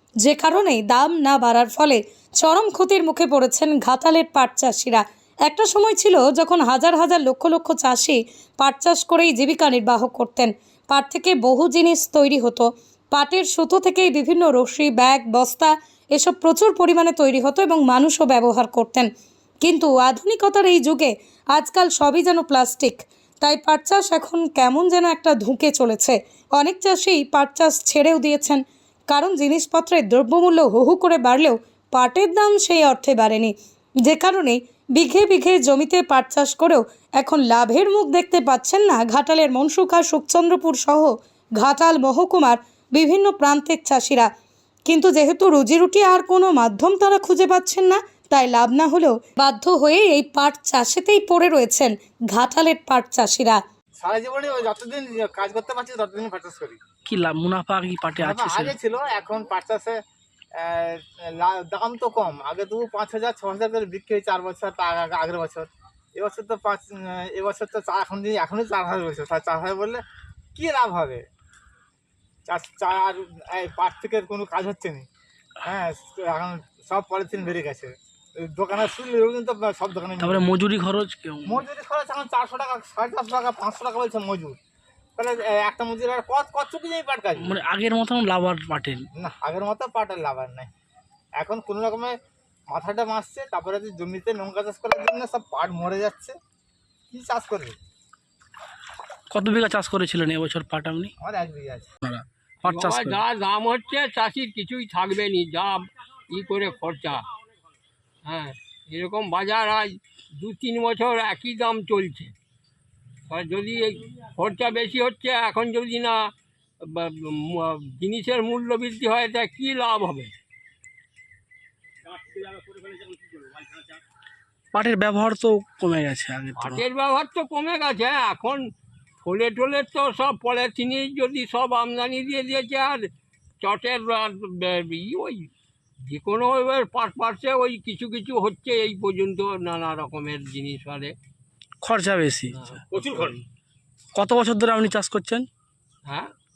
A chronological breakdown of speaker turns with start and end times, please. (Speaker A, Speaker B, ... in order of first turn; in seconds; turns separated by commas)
Speaker A: 0.2-19.1, Speaker A: 19.6-44.3, Speaker A: 44.9-53.6, Speaker B: 54.0-56.8, Speaker C: 57.0-58.7, Speaker B: 58.2-60.0, Speaker B: 60.6-70.0, Speaker B: 70.5-71.2, Speaker B: 72.5-75.1, Speaker B: 75.6-80.4, Speaker C: 80.2-81.6, Speaker B: 81.5-84.6, Speaker B: 85.2-87.6, Speaker C: 87.4-89.0, Speaker B: 89.2-90.7, Speaker B: 91.4-92.2, Speaker B: 92.7-96.3, Speaker B: 97.1-97.8, Speaker C: 99.3-101.1, Speaker B: 101.2-101.9, Speaker C: 102.0-103.2, Speaker D: 102.6-107.2, Speaker D: 108.2-112.3, Speaker D: 113.3-116.2, Speaker D: 116.8-120.3, Speaker D: 122.1-123.8, Speaker C: 124.7-126.8, Speaker D: 126.6-128.6, Speaker D: 129.2-133.1, Speaker D: 133.6-135.4, Speaker D: 136.1-141.1, Speaker C: 141.8-142.8, Speaker D: 142.5-143.4, Speaker C: 144.1-145.5, Speaker D: 146.1-146.3